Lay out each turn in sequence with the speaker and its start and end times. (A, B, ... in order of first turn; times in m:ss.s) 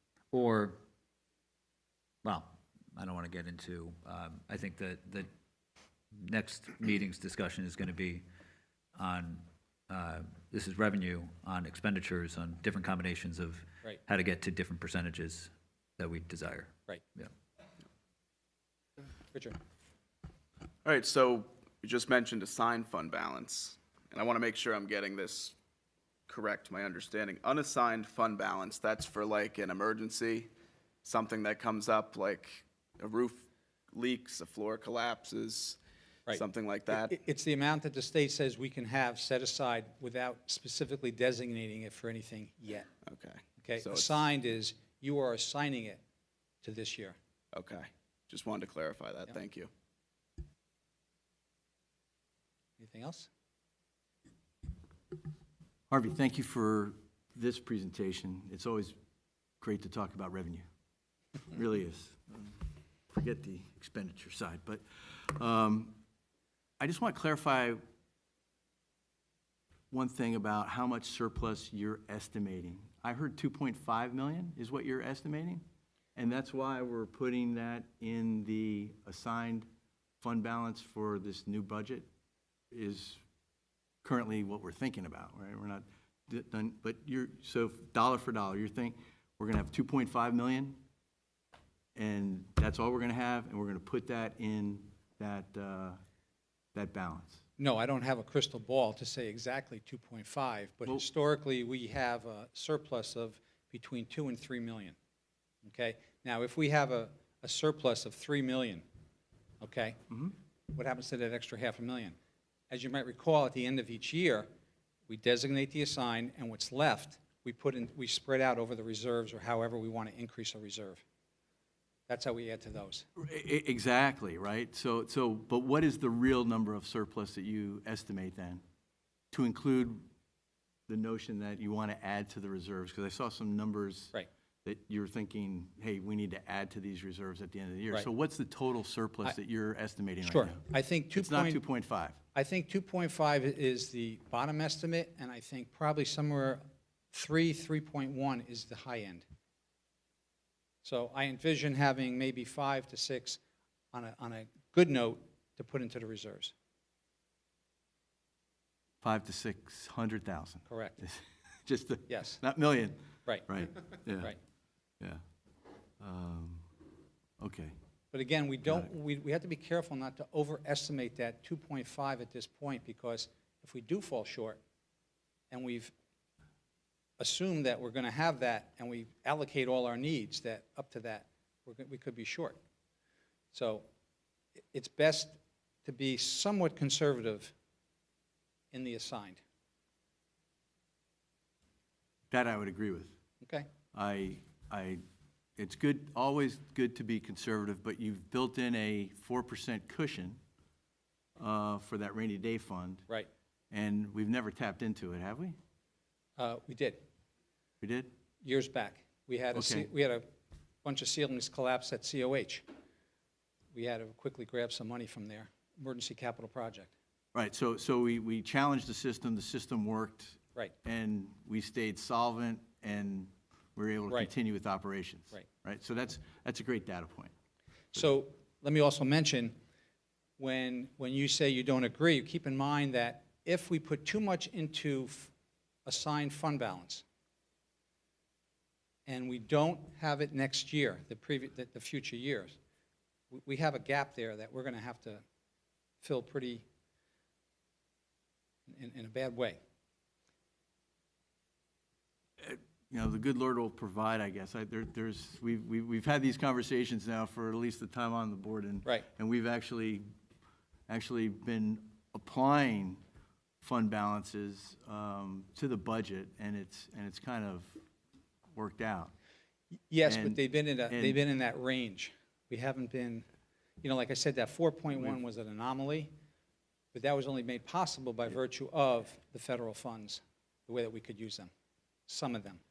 0:00.3-0:00.8 A
0:02.2-0:05.3 A
0:06.1-0:08.2 A
0:09.0-0:17.3 A
0:19.3-0:19.6 B
0:20.8-0:25.6 C
0:26.3-0:30.5 C
0:31.0-0:35.8 C
0:36.3-0:42.9 B
0:36.3-0:37.1 C
0:43.0-0:44.2 C
0:43.6-0:46.0 B
0:46.6-0:47.2 B
0:47.5-0:49.7 C
0:52.8-0:53.3 B
0:55.9-0:59.0 D
0:59.6-1:00.6 D
1:01.5-1:06.0 D
1:06.8-1:07.8 D
1:09.9-1:15.6 D
1:16.2-1:19.7 D
1:20.2-1:22.1 D
1:22.7-1:23.2 D
1:24.0-1:30.8 D
1:32.0-1:36.0 D
1:36.7-1:37.4 D
1:37.6-1:45.0 B
1:45.6-1:48.8 B
1:49.6-1:50.0 B
1:50.7-1:52.2 B
1:52.7-1:54.5 B
1:55.1-2:01.0 B
2:02.1-2:03.0 B
2:03.2-2:08.6 D
2:09.3-2:10.0 D
2:10.9-2:22.2 D
2:20.2-2:21.6 B
2:22.3-2:26.6 B
2:27.1-2:29.2 B
2:30.8-2:33.4 B
2:33.9-2:36.5 B
2:39.0-2:44.4 D
2:40.6-2:41.0 B
2:42.1-2:42.4 B
2:46.0-2:46.7 D
2:47.4-2:47.7 D
2:48.1-2:54.6 B
2:48.6-2:48.9 D
2:55.5-2:55.9 B
2:57.2-3:02.6 B
3:03.5-3:03.8 B
3:04.7-3:07.5 B
3:08.7-3:09.4 B
3:12.3-3:13.1 D
3:13.4-3:13.7 B
3:13.9-3:15.0 D
3:15.6-3:20.4 D
3:21.4-3:23.0 D
3:23.7-3:25.6 D
3:26.4-3:27.0 B
3:27.8-3:28.1 D
3:28.4-3:30.2 B
3:29.5-3:29.9 D
3:30.8-3:32.6 B
3:33.7-3:36.9 B
3:37.3-3:47.3 D
3:47.9-3:49.6 B
3:50.4-3:55.3 B
3:55.8-3:57.0 B
3:59.0-4:02.6 B
4:03.3-4:05.2 B
4:06.0-4:06.6 B
4:08.7-4:09.6 B
4:12.4-4:20.0 D
4:20.9-4:23.0 D
4:23.6-4:27.8 D
4:28.5-4:29.1 D
4:29.9-4:33.2 B
4:30.0-4:31.2 D
4:33.8-4:36.1 B
4:36.9-4:41.5 B
4:42.1-4:42.6 B